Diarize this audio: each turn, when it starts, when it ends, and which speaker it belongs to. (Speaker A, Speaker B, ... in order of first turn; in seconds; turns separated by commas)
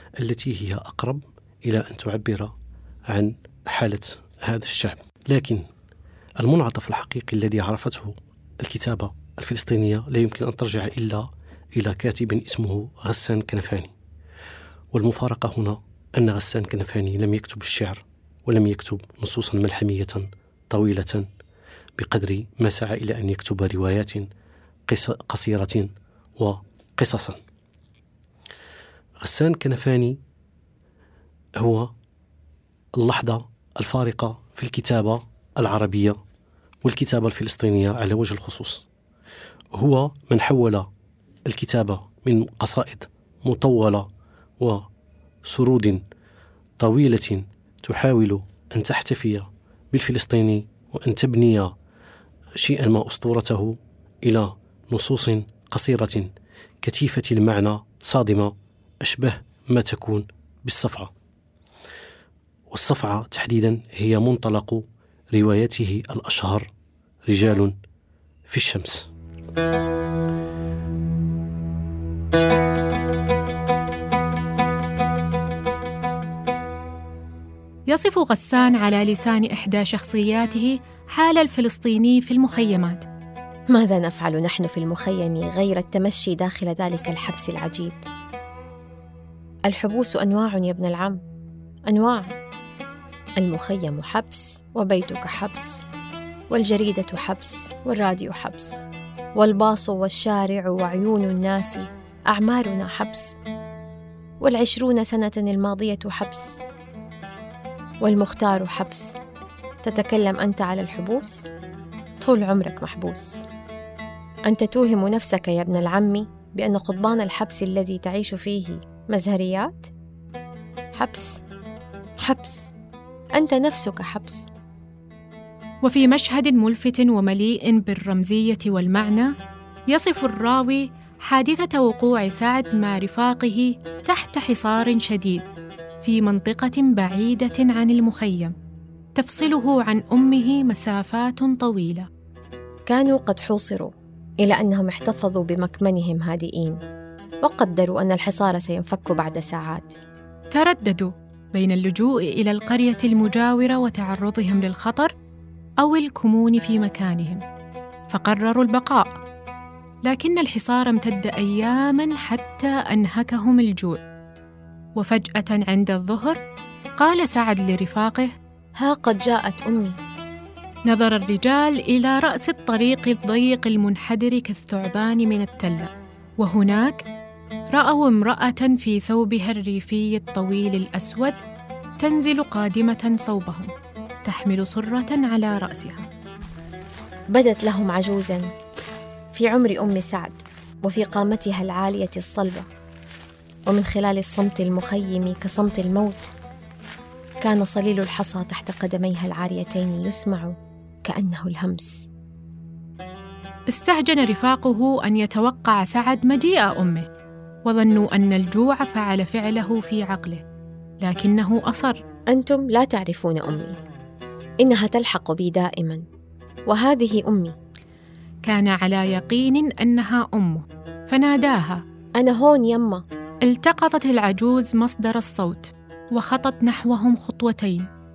Speaker A: 0.2-2.5, Speaker A: 3.1-5.7, Speaker A: 6.4-13.9, Speaker A: 14.9-21.2, Speaker A: 22.0-24.3, Speaker A: 24.9-27.4, Speaker A: 29.2-30.2, Speaker A: 31.6-31.9, Speaker A: 33.0-36.1, Speaker A: 36.8-38.9, Speaker A: 39.7-40.9, Speaker A: 41.5-44.1, Speaker A: 45.5-46.0, Speaker A: 46.8-51.7, Speaker A: 52.6-56.3, Speaker A: 56.8-58.5, Speaker A: 59.0-61.1, Speaker A: 62.7-66.7, Speaker A: 67.3-67.7, Speaker A: 68.5-69.1, Speaker B: 77.9-83.1, Speaker C: 83.7-88.0, Speaker C: 89.7-91.2, Speaker C: 91.9-92.3, Speaker C: 93.4-95.8, Speaker C: 96.5-98.8, Speaker C: 99.3-103.4, Speaker C: 104.4-106.6, Speaker C: 108.0-109.2, Speaker C: 109.8-111.5, Speaker C: 112.2-113.4, Speaker C: 114.5-119.9, Speaker C: 120.9-121.4, Speaker C: 122.2-122.7, Speaker C: 123.3-124.5, Speaker B: 125.8-129.3, Speaker B: 129.9-135.4, Speaker B: 136.0-138.5, Speaker B: 139.1-142.1, Speaker C: 142.9-146.8, Speaker C: 147.4-149.9, Speaker B: 150.5-155.1, Speaker B: 155.8-157.4, Speaker B: 158.1-159.1, Speaker B: 160.1-164.0, Speaker B: 164.9-166.4, Speaker B: 167.0-168.3, Speaker C: 168.8-170.0, Speaker B: 170.8-177.0, Speaker B: 177.7-181.4, Speaker B: 182.0-183.7, Speaker B: 184.2-186.1, Speaker C: 187.3-188.5, Speaker C: 189.3-192.7, Speaker C: 193.7-196.3, Speaker C: 197.4-202.1, Speaker B: 203.7-207.0, Speaker B: 207.6-210.4, Speaker B: 211.0-212.0, Speaker C: 212.3-213.8, Speaker C: 214.6-216.0, Speaker C: 216.7-217.5, Speaker B: 218.4-221.8, Speaker C: 222.2-223.0, Speaker B: 223.4-227.9